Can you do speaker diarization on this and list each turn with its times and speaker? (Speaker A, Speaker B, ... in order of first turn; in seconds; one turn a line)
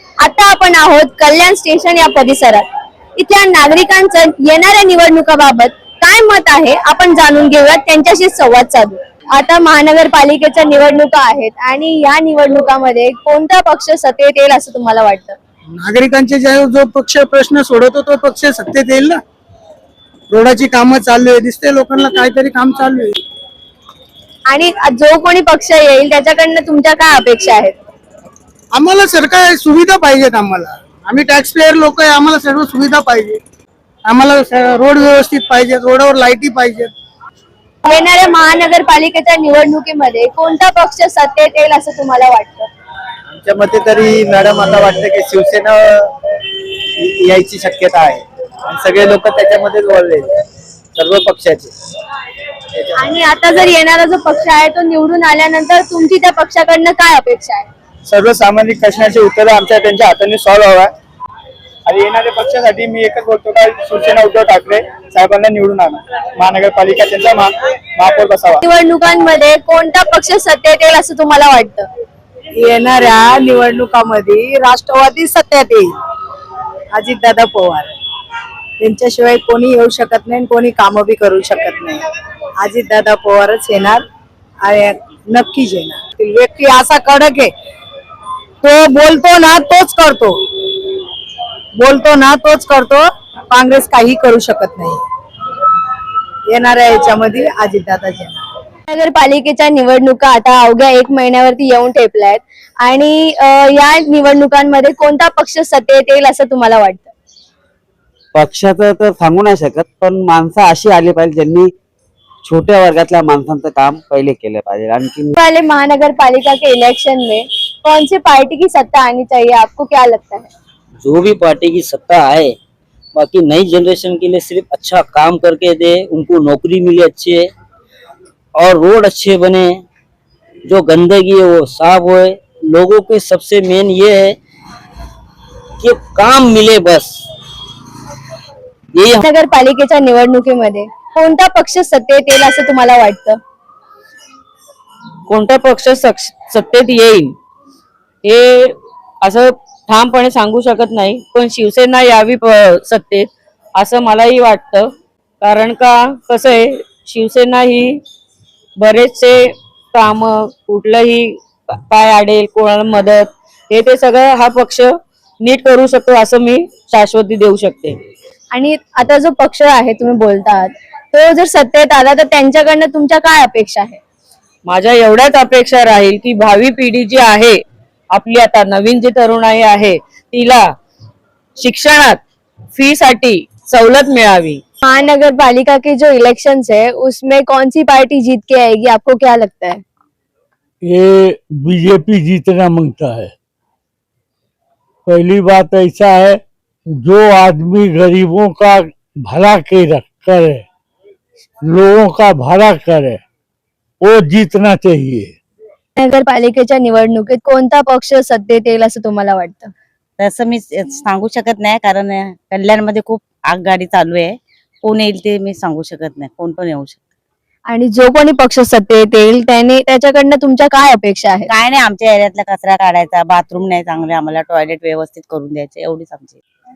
Speaker A: 0.2-2.6
Speaker A: 3.2-15.4
Speaker B: 15.8-19.2
Speaker B: 20.3-23.1
Speaker A: 24.5-27.7
Speaker B: 28.8-33.4
Speaker B: 34.1-36.9
Speaker A: 37.8-42.7
Speaker C: 43.3-46.1
Speaker C: 47.0-50.3
Speaker C: 51.0-51.7
Speaker A: 53.0-57.7
Speaker C: 58.1-60.9
Speaker C: 61.9-68.6
Speaker A: 68.6-71.9
Speaker D: 72.5-75.9
Speaker D: 76.9-77.9
Speaker D: 78.8-82.0
Speaker D: 82.6-84.0
Speaker D: 84.6-87.5
Speaker D: 88.6-90.4
Speaker D: 91.8-95.0
Speaker D: 96.5-98.4
Speaker A: 98.9-107.1
Speaker E: 108.3-111.7
Speaker E: 112.4-115.3
Speaker A: 115.4-120.5
Speaker F: 121.0-122.5
Speaker F: 123.1-127.5
Speaker F: 128.6-129.8
Speaker F: 130.6-134.4
Speaker F: 135.8-137.2
Speaker F: 138.9-139.2
Speaker A: 139.2-143.4
Speaker G: 145.3-147.3
Speaker G: 148.2-154.9
Speaker G: 155.4-158.0
Speaker G: 158.8-167.9
Speaker A: 168.5-174.0
Speaker G: 174.7-177.6
Speaker G: 178.1-180.7
Speaker G: 181.6-182.2
Speaker G: 182.7-184.6
Speaker A: 184.8-189.8
Speaker H: 190.8-193.3
Speaker H: 195.1-196.4
Speaker H: 197.0-200.6
Speaker H: 201.7-203.2
Speaker H: 204.0-205.3
Speaker A: 206.0-209.7
Speaker I: 210.2-217.0
Speaker A: 217.7-221.5
Speaker I: 221.5-226.4